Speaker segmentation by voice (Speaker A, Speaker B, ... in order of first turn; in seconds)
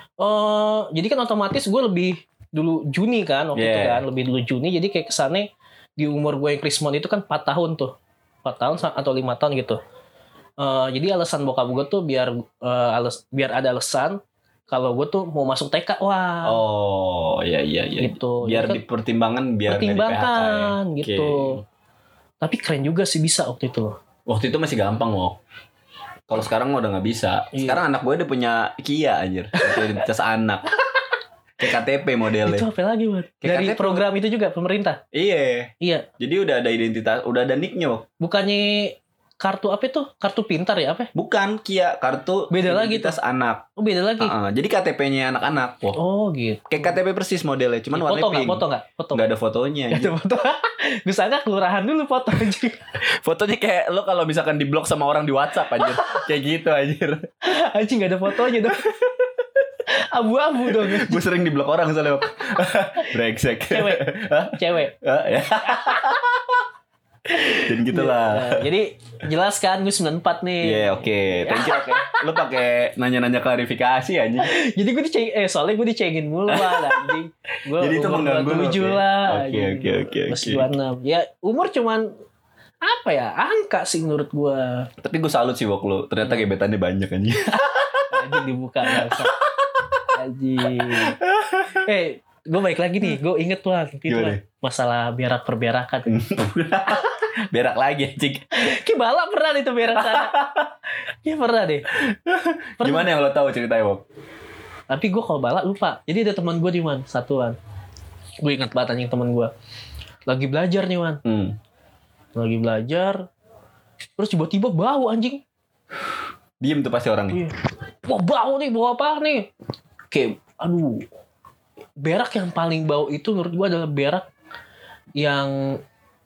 Speaker A: 0.2-9.8, 10.6-16.6, 18.0-18.8, 19.7-21.6, 22.4-23.9, 27.5-27.8, 29.6-29.9, 32.4-35.0, 35.8-36.1, 38.2-41.1, 42.5-43.2, 43.8-44.3, 45.9-46.9, 47.9-49.2, 49.9-52.9, 57.4-58.9, 59.9-61.2, 63.7-64.9, 67.3-72.2, 74.4-82.1, 82.8-84.9, 88.0-89.4, 90.1-91.2, 91.7-96.1, 98.5-100.4, 101.2-101.8, 102.8-103.1, 104.9-107.6, 108.4-109.5, 110.3-111.2, 112.3-113.2, 114.2-115.4, 118.1-119.5, 120.1-121.0, 122.0-124.2, 125.2-125.8
Speaker B: 3.5-4.0, 16.4-21.6, 24.2-25.4, 26.3-30.6, 31.6-32.7, 33.4-34.0, 35.1-38.0, 41.1-43.6, 44.2-46.0, 46.7-50.1, 53.2-57.3, 60.7-66.6, 67.6-68.7, 70.6-74.5, 76.5-77.2, 77.8-80.7, 85.0-88.2, 88.9-90.0, 90.7-91.8, 94.1-94.4, 96.1-98.5, 100.0-100.7, 101.9-104.0, 111.2-111.6, 116.6-117.4